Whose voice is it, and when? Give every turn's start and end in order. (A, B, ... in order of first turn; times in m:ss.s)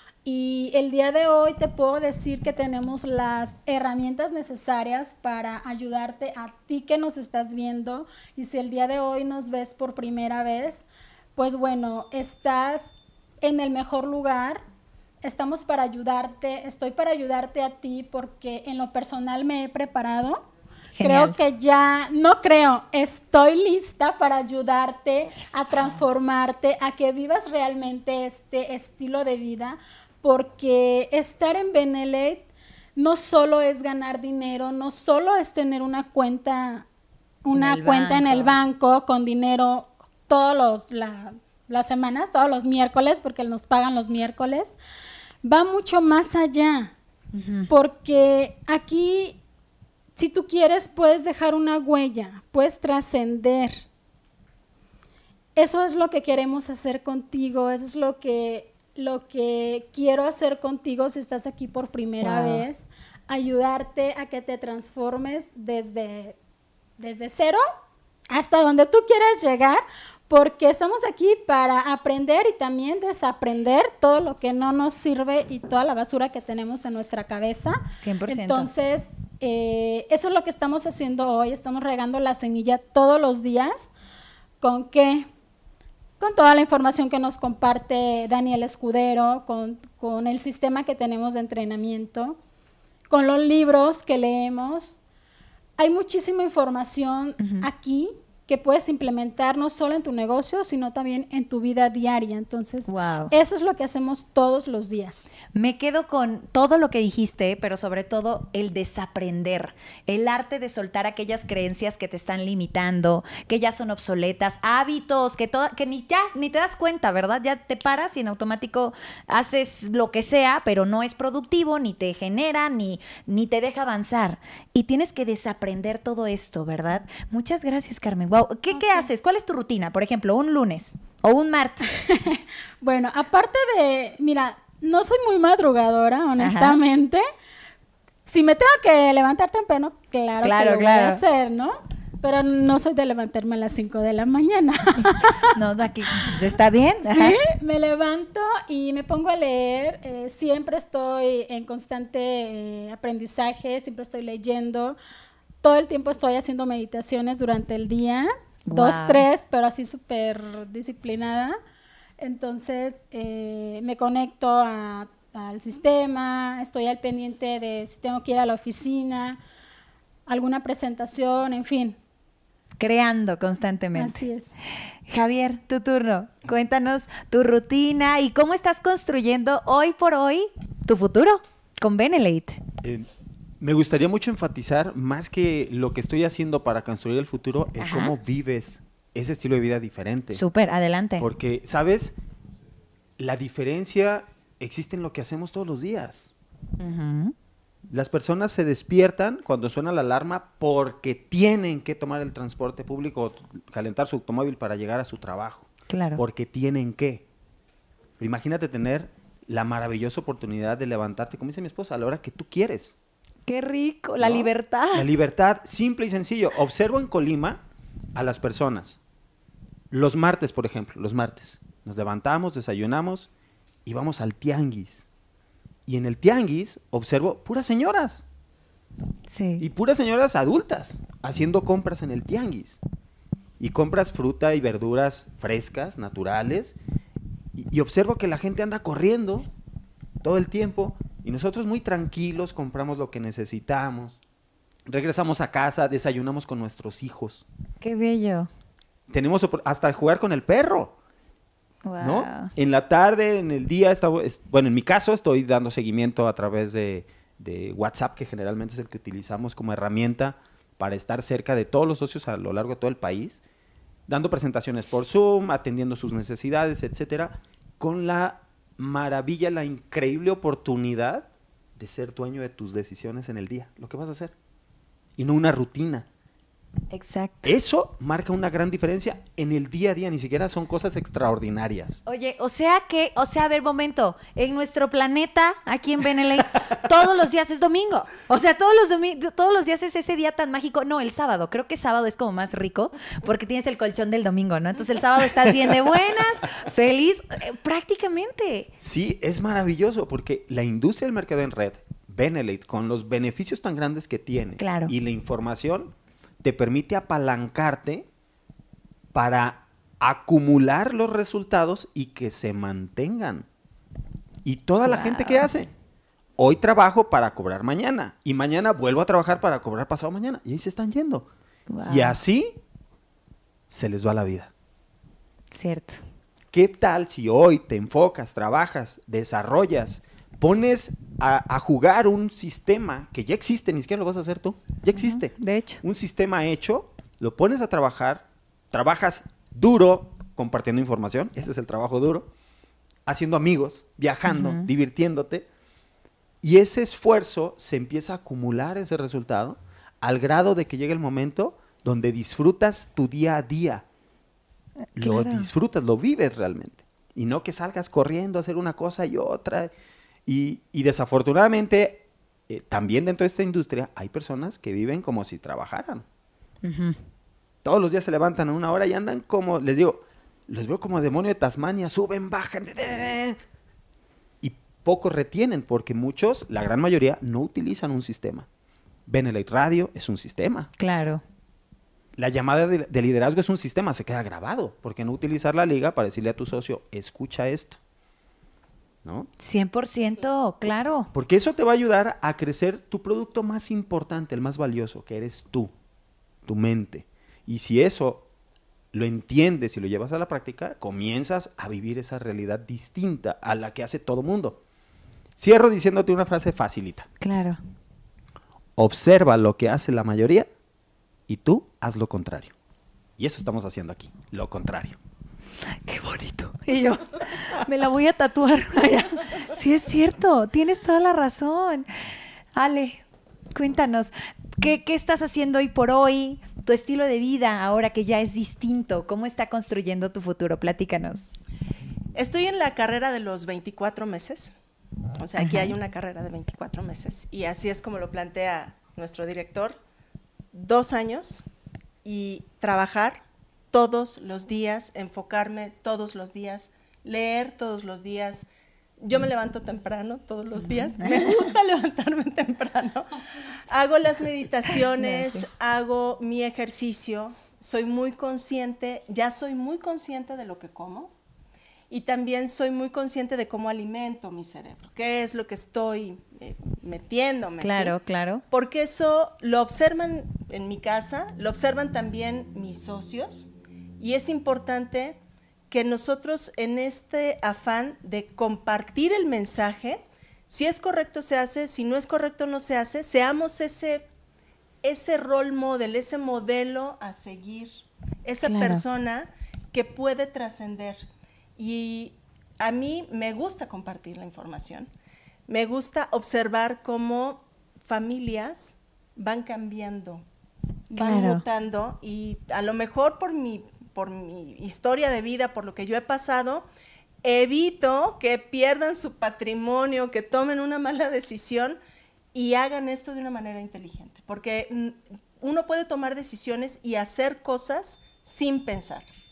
0:00.2-0:12.9 A
0:13.4-0:14.6 A
0:15.2-0:20.4 A
0:20.9-0:21.4 B
0:21.0-0:36.9 A
0:25.7-0:26.0 B
0:37.4-0:44.8 A
0:37.6-0:38.5 B
0:45.4-0:46.9 A
0:47.3-0:47.7 B
0:47.7-0:49.4 A
0:50.2-0:53.9 A
0:55.6-1:06.4 A
1:02.2-1:02.6 B
1:07.0-1:07.6 A
1:08.3-1:23.9 A
1:17.9-1:18.7 B
1:24.6-1:25.3 A
1:26.2-1:32.4 A
1:33.1-1:35.0 A
1:35.8-1:45.3 A
1:37.4-1:37.6 B
1:42.9-1:43.3 B
1:45.5-2:11.9 B
2:12.1-2:17.2 A
2:16.4-2:16.8 B
2:18.2-2:25.5 A
2:20.4-2:21.2 B
2:25.0-2:27.4 B
2:27.0-2:35.0 A
2:35.6-2:41.6 A
2:38.7-2:39.2 B
2:42.2-2:49.4 A
2:50.3-2:52.0 A
2:52.8-2:54.2 B
2:53.9-2:54.6 A
2:55.1-3:02.6 B
3:03.6-3:10.4 C
3:07.8-3:08.1 B
3:10.3-3:11.3 B
3:11.2-3:12.2 C
3:13.2-3:16.3 C
3:16.8-3:17.4 B
3:17.9-3:27.2 C
3:25.9-3:26.2 B
3:28.2-3:32.9 C
3:33.5-3:35.1 B
3:34.2-3:37.6 C
3:38.1-3:39.0 C
3:39.9-3:43.3 C
3:43.9-3:45.1 C
3:45.9-3:48.2 C
3:49.3-3:49.6 B
3:49.6-3:52.8 C
3:53.6-3:56.8 C
3:57.6-3:59.5 C
4:00.2-4:04.2 C
4:04.9-4:07.4 C
4:07.8-4:08.5 B
4:09.1-4:10.9 C
4:11.8-4:12.5 B
4:12.0-4:23.4 C
4:24.1-4:34.3 C
4:35.2-4:36.1 C
4:36.9-4:37.5 B
4:37.4-4:42.0 C
4:42.1-4:58.7 B
4:58.8-5:08.1 C
5:04.6-5:04.9 B
5:09.1-5:13.5 C
5:14.4-5:15.7 C
5:14.8-5:15.5 B
5:16.4-5:21.3 C
5:21.7-5:22.2 B
5:21.9-5:22.6 C
5:23.7-5:24.5 C
5:25.5-5:26.0 B
5:26.5-5:42.3 C
5:34.9-5:35.8 B
5:43.1-5:45.4 C
5:44.2-5:44.7 B
5:46.4-5:53.8 C
5:55.0-5:59.7 C
5:55.0-5:55.5 B
6:00.2-6:06.1 C
6:06.6-6:07.0 B
6:07.6-6:13.4 C
6:14.4-6:18.5 C
6:19.1-6:20.7 C
6:20.8-6:21.2 B
6:22.2-6:27.8 C
6:29.0-6:29.3 C
6:29.4-6:31.1 B
6:31.1-6:35.7 C
6:36.4-6:38.2 C
6:38.9-6:44.6 C
6:45.4-6:47.1 C
6:47.2-6:47.6 B
6:48.8-6:50.5 C
6:51.3-6:52.5 C
6:53.2-6:55.0 C
6:55.8-7:01.9 B
7:02.5-7:03.0 B
7:03.6-7:11.3 B
7:12.1-7:14.5 D
7:15.2-7:19.8 D
7:15.4-7:15.8 B
7:20.5-7:21.4 D
7:22.0-7:28.5 D
7:29.0-7:33.1 D
7:30.6-7:31.5 B
7:33.7-7:41.1 D
7:35.0-7:35.4 B
7:41.9-7:47.9 D
7:47.6-7:48.4 B
7:48.5-7:55.2 D
7:55.7-8:04.1 D
8:04.8-8:11.0 D
8:08.4-8:08.8 B
8:11.6-8:14.9 D
8:15.5-8:20.2 D
8:20.9-8:21.4 B
8:20.9-8:26.6 D
8:27.2-8:31.8 D
8:32.3-8:39.1 D